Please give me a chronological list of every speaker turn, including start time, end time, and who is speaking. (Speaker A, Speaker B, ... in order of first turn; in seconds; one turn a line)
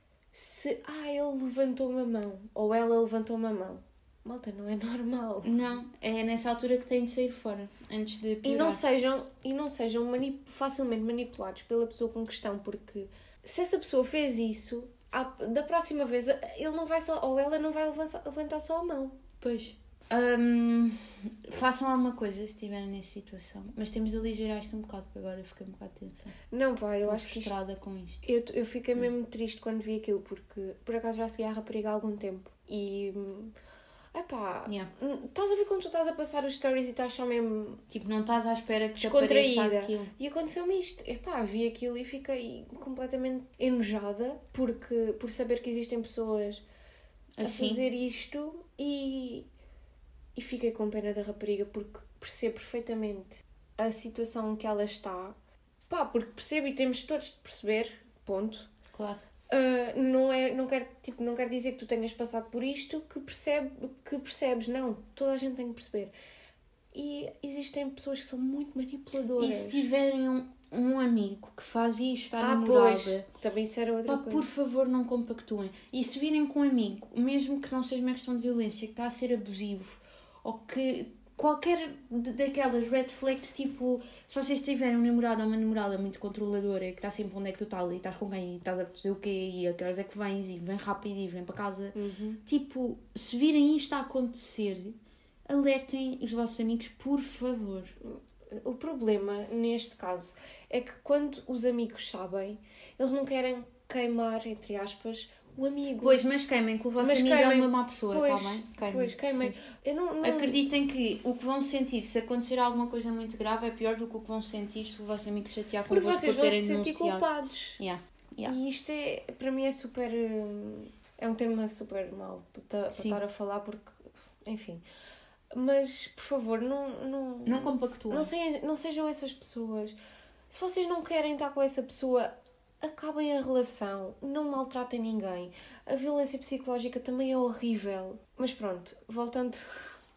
Speaker A: 0.3-5.6
Speaker B: 5.4-8.8
Speaker A: 8.4-19.2
Speaker B: 19.4-26.3
Speaker A: 26.5-27.5
Speaker B: 27.0-28.2
Speaker A: 28.2-33.5
Speaker A: 34.1-37.8
Speaker B: 37.9-40.1
Speaker A: 39.0-46.6
Speaker B: 47.4-47.8
Speaker A: 47.4-49.5
Speaker A: 50.4-55.3
Speaker A: 55.9-58.7
Speaker B: 58.9-59.2
Speaker A: 59.5-66.1
Speaker A: 66.9-69.9
Speaker B: 69.4-73.2
Speaker A: 72.4-74.5
Speaker B: 74.0-97.9
Speaker A: 91.9-92.4
Speaker A: 98.0-106.2
Speaker B: 106.0-109.5
Speaker A: 107.0-110.6
Speaker B: 110.2-117.3
Speaker A: 115.9-117.8
Speaker B: 117.8-118.5
Speaker A: 118.4-124.8
Speaker B: 122.9-123.2
Speaker A: 125.5-129.9
Speaker B: 127.5-128.3
Speaker A: 130.5-139.9